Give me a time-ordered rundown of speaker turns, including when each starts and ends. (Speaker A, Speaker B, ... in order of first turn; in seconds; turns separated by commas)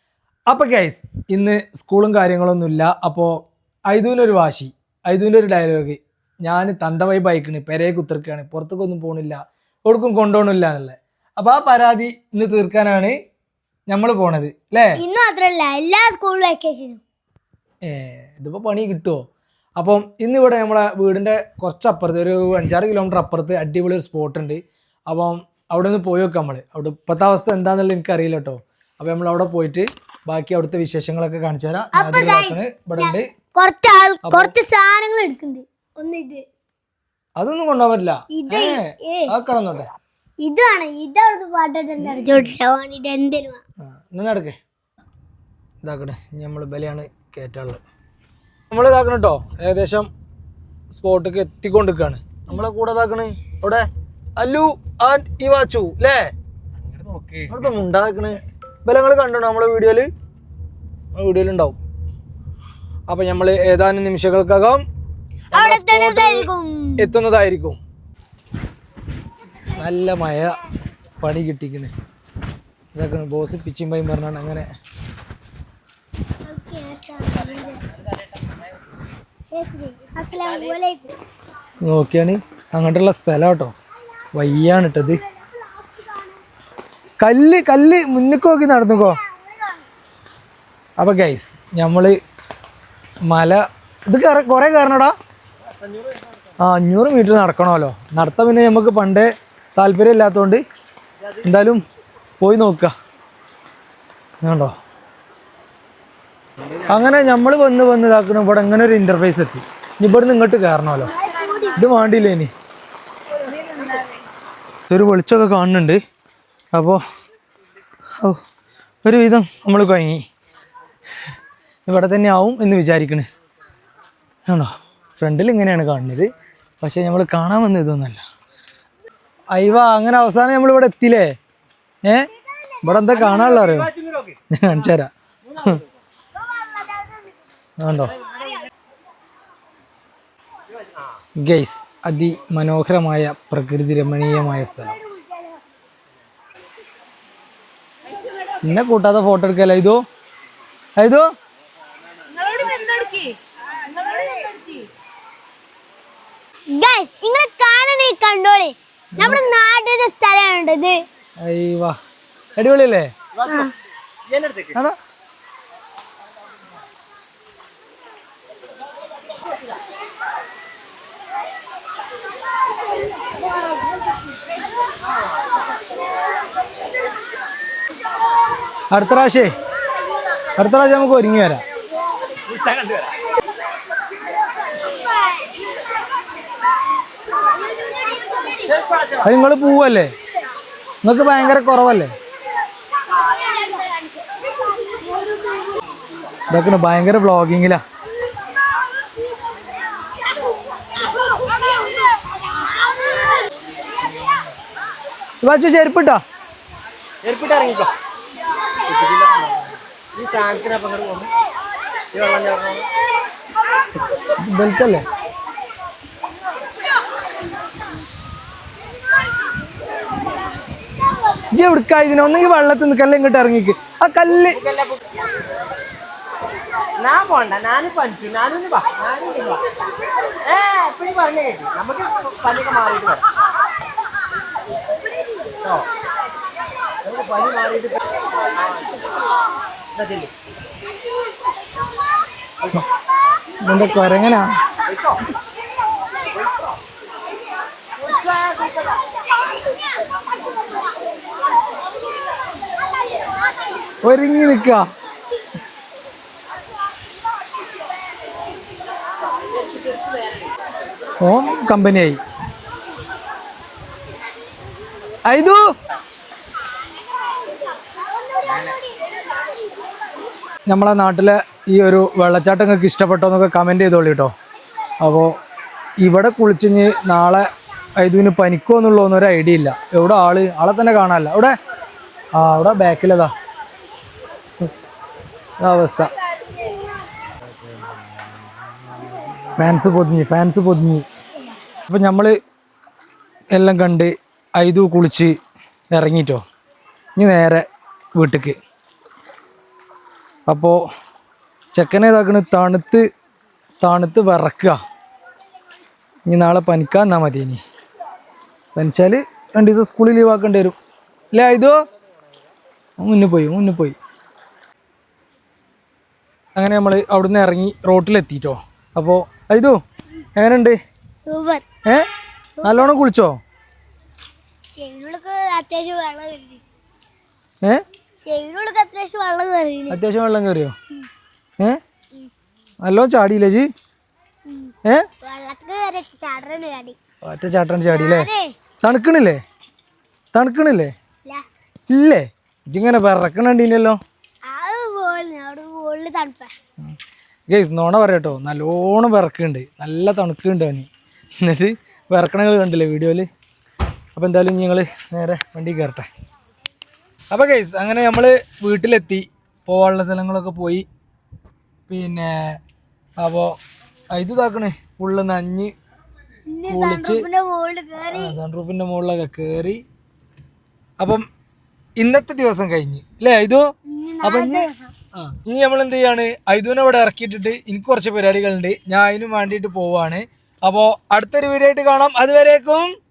Speaker A: 0.5-13.2, Speaker A: 13.9-15.0, Speaker B: 15.0-17.0, Speaker A: 17.9-19.2, Speaker A: 19.8-33.3, Speaker B: 31.9-36.4, Speaker A: 34.2-34.5, Speaker A: 37.4-39.9, Speaker B: 38.3-39.3, Speaker B: 40.4-43.6, Speaker A: 42.0-42.5, Speaker A: 43.9-44.6, Speaker A: 45.8-47.8, Speaker A: 48.7-50.1, Speaker A: 50.9-56.3, Speaker C: 57.0-57.4, Speaker A: 57.5-60.1, Speaker A: 61.1-61.8, Speaker A: 63.1-64.8, Speaker A: 65.5-66.5, Speaker B: 65.5-67.2, Speaker A: 67.0-67.8, Speaker A: 69.8-70.6, Speaker A: 71.2-71.9, Speaker A: 73.0-74.7, Speaker B: 76.5-77.8, Speaker B: 79.5-81.1, Speaker A: 81.8-83.7, Speaker A: 84.3-85.2, Speaker B: 85.0-86.4, Speaker A: 87.2-89.2, Speaker B: 89.2-89.8, Speaker A: 91.0-92.2, Speaker A: 93.3-95.1, Speaker A: 96.6-100.6, Speaker A: 101.4-101.8, Speaker A: 102.4-102.9, Speaker A: 104.4-104.8, Speaker A: 106.9-111.2, Speaker B: 111.0-111.9, Speaker A: 111.7-112.5, Speaker A: 114.9-116.0, Speaker A: 116.8-117.0, Speaker A: 119.0-120.2, Speaker A: 121.9-123.3, Speaker A: 124.5-126.3, Speaker A: 126.8-128.2, Speaker A: 129.5-131.3, Speaker A: 132.8-133.9, Speaker C: 133.2-134.4, Speaker A: 134.5-135.8, Speaker B: 136.4-137.4, Speaker A: 137.8-138.2, Speaker B: 138.3-138.6, Speaker A: 141.4-145.0, Speaker B: 144.2-145.6, Speaker A: 148.6-150.0, Speaker A: 151.0-151.3, Speaker B: 152.4-153.3, Speaker B: 153.9-154.7, Speaker C: 154.2-154.8, Speaker B: 156.7-161.0, Speaker A: 159.2-159.4, Speaker A: 161.4-162.0, Speaker A: 162.6-163.1, Speaker B: 163.5-163.7, Speaker C: 164.3-164.7, Speaker A: 178.9-179.5, Speaker A: 180.6-181.6, Speaker C: 182.5-183.1, Speaker B: 187.8-188.8, Speaker A: 189.2-190.1, Speaker A: 191.0-192.1, Speaker A: 196.5-197.8, Speaker A: 205.4-206.2, Speaker C: 207.2-207.9, Speaker C: 208.9-211.3, Speaker C: 212.1-212.9, Speaker A: 214.4-215.1, Speaker A: 221.5-224.6, Speaker C: 224.6-225.0, Speaker C: 227.0-229.7, Speaker C: 230.4-233.2, Speaker C: 235.6-235.9, Speaker C: 237.0-238.0, Speaker C: 238.6-239.0, Speaker C: 239.9-240.3, Speaker A: 243.6-244.5, Speaker C: 244.8-245.2, Speaker C: 248.0-249.0, Speaker A: 254.0-254.9, Speaker A: 261.2-262.2, Speaker A: 265.3-265.6, Speaker B: 268.4-268.8, Speaker A: 270.7-274.3, Speaker A: 275.0-275.3, Speaker A: 276.0-277.5, Speaker A: 278.0-281.6, Speaker A: 282.4-283.3, Speaker A: 285.6-286.1, Speaker A: 289.6-291.1, Speaker A: 291.9-292.4, Speaker A: 293.6-295.4, Speaker A: 295.9-296.4, Speaker A: 297.2-298.6, Speaker A: 300.5-300.8, Speaker A: 301.8-303.1, Speaker A: 303.8-304.8, Speaker A: 306.3-307.6, Speaker A: 308.8-310.8, Speaker A: 311.4-311.8, Speaker A: 313.0-314.0, Speaker A: 316.6-319.8, Speaker A: 320.4-320.8, Speaker B: 321.2-321.6, Speaker B: 322.6-322.9, Speaker A: 322.6-323.4, Speaker B: 324.8-326.6, Speaker B: 328.2-330.0, Speaker A: 329.9-330.8, Speaker A: 332.8-333.7, Speaker B: 334.5-337.0, Speaker A: 337.2-338.3, Speaker B: 337.9-338.6, Speaker A: 338.8-339.4, Speaker A: 340.3-340.9, Speaker A: 341.9-344.0, Speaker B: 344.5-346.6, Speaker A: 347.5-350.9, Speaker A: 351.4-353.3, Speaker A: 354.2-356.1, Speaker A: 357.3-360.9, Speaker A: 361.9-362.6, Speaker A: 363.2-363.6, Speaker A: 364.1-365.7, Speaker B: 366.5-368.4, Speaker A: 366.7-367.2, Speaker A: 368.1-369.8, Speaker A: 371.0-371.2, Speaker A: 372.0-373.6, Speaker B: 373.9-374.9, Speaker A: 374.2-382.9